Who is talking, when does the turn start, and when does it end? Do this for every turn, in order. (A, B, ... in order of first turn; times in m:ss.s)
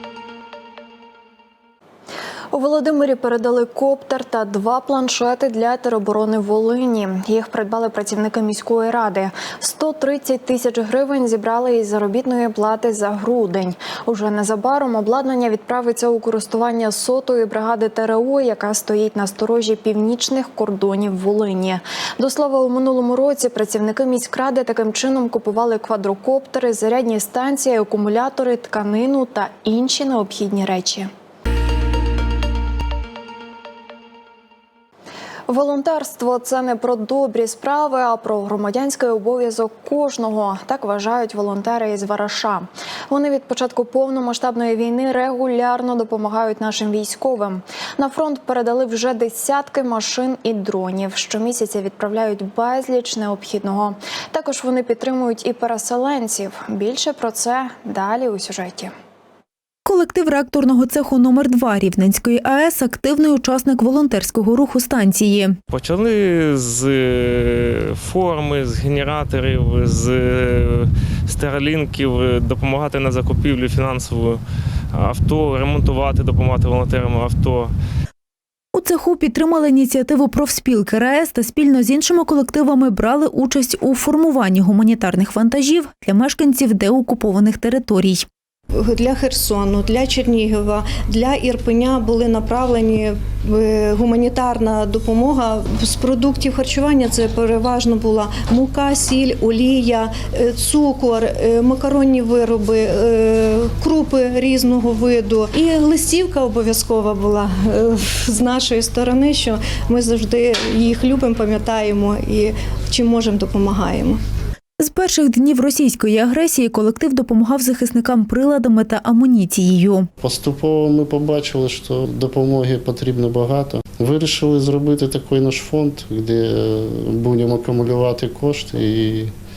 0:02.5-0:31.1 A
0:35.5-0:58.9 A
0:59.8-1:05.6 B
1:05.7-1:14.4 C
1:14.9-1:17.7 C
1:18.7-1:28.2 B
1:28.7-1:54.2 D
1:54.8-2:00.1 B
2:00.2-2:09.3 E